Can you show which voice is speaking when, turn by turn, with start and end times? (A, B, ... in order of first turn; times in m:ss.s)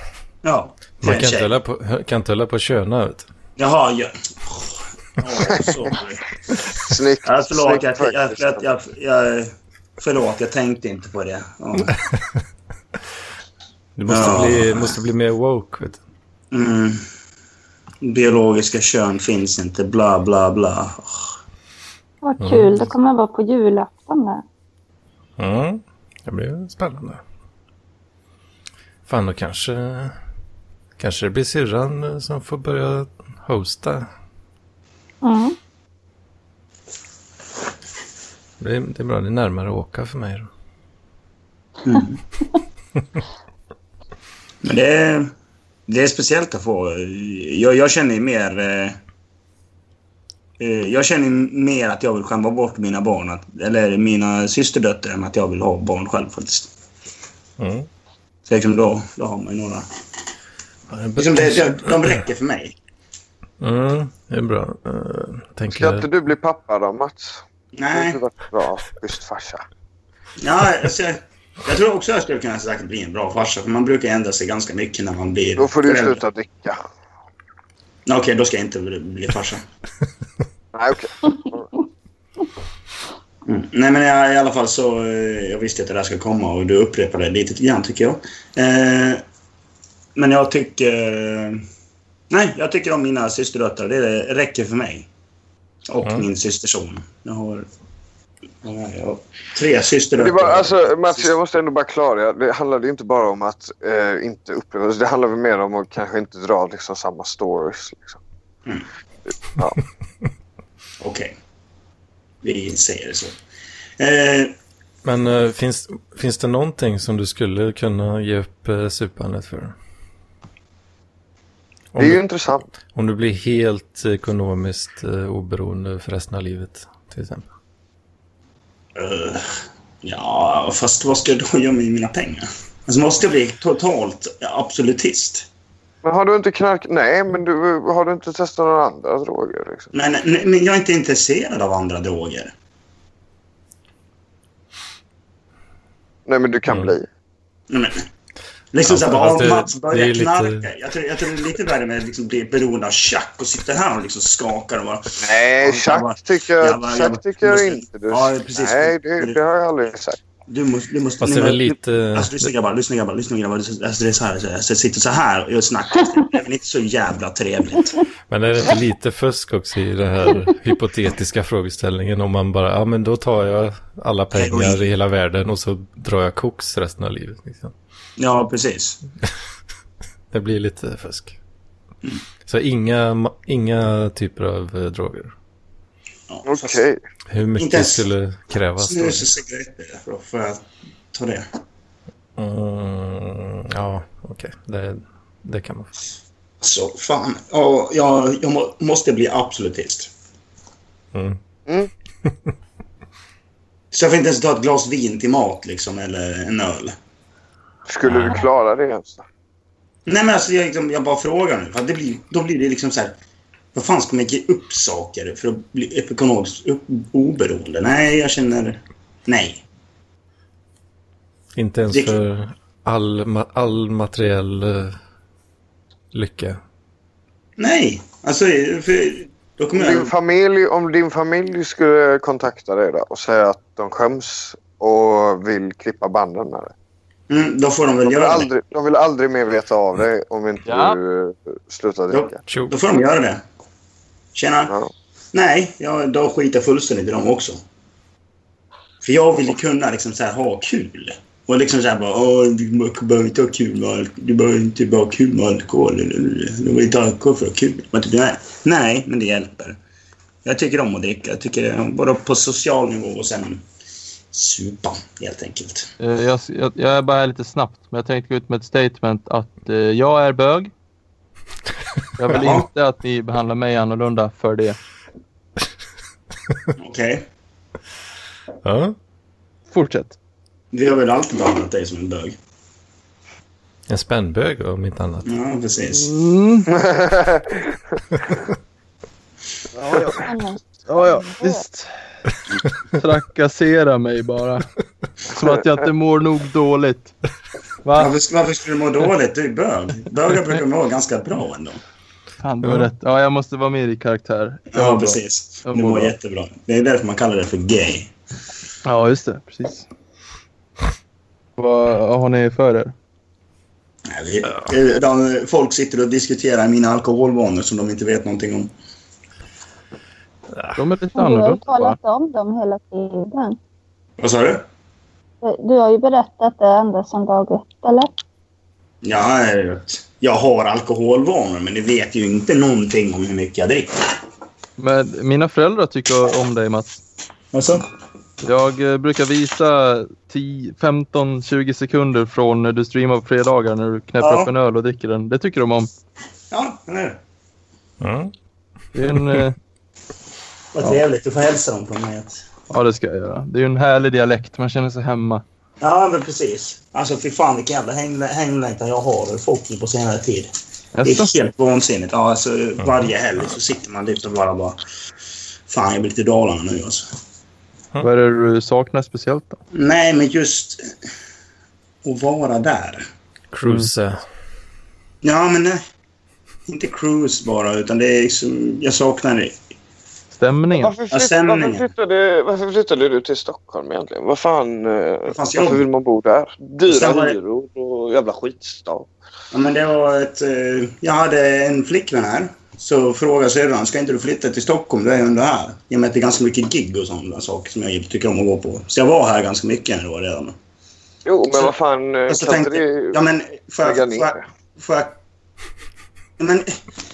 0:00.4-0:01.5 A
0:01.0-0:03.3 B
0:03.6-0:06.2 A
0:05.5-0:05.7 C
0:06.7-0:08.6 C
0:07.2-0:11.9 A
0:14.0-0:16.0 B
0:14.1-0:15.0 A
0:16.5-0:17.0 A
0:18.0-0:21.4 A
0:22.2-0:24.4 D
0:22.4-0:22.9 B
0:25.4-0:27.2 B
0:29.1-0:30.2 B
0:31.0-0:34.1 B
0:35.2-0:35.6 D
0:38.6-0:40.5 B
0:41.8-0:42.2 A
0:44.6-0:45.3 A
0:45.9-0:49.0 A
0:50.6-0:56.7 A
0:57.6-0:57.9 B
0:58.5-0:59.9 A
1:00.9-1:02.2 B
1:01.2-1:02.8 A
1:03.6-1:06.0 B
1:05.7-1:09.6 C
1:07.8-1:08.2 A
1:10.4-1:16.2 A
1:15.6-1:16.8 C
1:18.1-1:19.6 A
1:20.7-1:21.7 C
1:23.5-1:29.2 A
1:30.2-1:31.6 A
1:32.3-1:35.1 A
1:35.9-1:37.7 A
1:38.6-1:41.3 A
1:40.2-1:48.2 C
1:51.0-1:51.3 A
1:52.4-1:53.4 A
1:54.0-1:54.6 A
1:55.0-1:59.8 B
2:01.9-2:02.2 B
2:02.0-2:02.7 C
2:02.9-2:07.5 B
2:09.0-2:09.5 A
2:10.0-2:15.5 A
2:16.0-2:19.9 C
2:19.9-2:22.5 A
2:26.3-2:27.1 C
2:26.7-2:26.9 B
2:27.7-2:28.1 A
2:28.7-2:39.4 A
2:28.9-2:30.7 B
2:35.2-2:40.2 C
2:40.5-2:48.0 A
2:41.2-2:42.5 B
2:48.3-2:57.7 B
2:54.4-2:54.8 A
2:58.2-2:59.0 A
3:00.3-3:01.4 B
3:02.5-3:05.3 B
3:06.3-3:06.8 A
3:06.4-3:07.0 C
3:07.3-3:09.3 B
3:07.6-3:08.1 A
3:08.8-3:11.4 A
3:12.4-3:15.9 B
3:16.6-3:20.1 A
3:21.1-3:21.4 B
3:23.9-3:27.0 A
3:27.9-3:29.2 C
3:28.1-3:28.4 B
3:30.1-3:33.2 A
3:33.7-3:39.6 A
3:41.6-3:45.0 B
3:41.9-3:42.2 A
3:46.1-3:46.6 B
3:47.6-3:50.1 A
3:49.8-3:56.7 C
3:57.3-3:58.5 A
3:58.0-4:02.4 C
4:00.7-4:01.0 E
4:02.1-4:03.4 A
4:02.5-4:02.8 B
4:04.4-4:04.8 A
4:04.7-4:04.9 C
4:05.3-4:07.6 A
4:09.0-4:19.8 A
4:20.4-4:23.6 A
4:24.3-4:25.9 A
4:26.0-4:30.7 E
4:32.2-4:34.8 E
4:32.3-4:32.7 A
4:36.8-4:37.2 A
4:38.6-4:39.0 B
4:39.7-4:40.2 E
4:40.7-4:42.4 A
4:43.9-4:45.3 B
4:45.3-4:46.1 A
4:45.9-4:46.8 E
4:46.8-4:47.7 C
4:49.8-4:50.2 E
4:50.2-4:51.6 D
4:50.9-4:51.9 E
4:53.0-4:54.7 E
4:55.2-4:57.1 E
4:57.8-4:58.1 E
4:58.0-5:01.8 A
5:02.4-5:06.1 E
5:02.6-5:02.9 B
5:04.7-5:08.1 A
5:08.8-5:09.9 E
5:11.6-5:12.9 E
5:14.1-5:18.7 A
5:20.8-5:22.0 E
5:21.2-5:23.6 D
5:24.2-5:24.6 A
5:25.4-5:28.1 D
5:29.0-5:34.0 A
5:34.8-5:37.0 E
5:37.5-5:37.8 A
5:38.4-5:45.9 E
5:44.2-5:44.5 A
5:46.5-5:47.2 A
5:48.0-5:48.3 B
5:49.0-5:49.6 E
5:50.7-5:52.5 A
5:52.7-5:55.4 E
5:55.8-6:00.5 A
6:01.0-6:01.3 E
6:01.0-6:04.8 A
6:05.7-6:07.1 A
6:08.0-6:09.6 E
6:09.7-6:10.8 A
6:12.0-6:13.0 A
6:13.5-6:14.2 B
6:13.6-6:13.9 E
6:15.2-6:15.8 A
6:16.7-6:19.6 A
6:20.4-6:21.0 E
6:20.7-6:29.1 C
6:21.1-6:21.9 A
6:25.3-6:25.8 A
6:26.9-6:27.4 A
6:29.5-6:40.6 A
6:41.3-6:43.2 C
6:42.3-6:45.2 A
6:43.8-6:44.4 C
6:46.4-6:46.7 A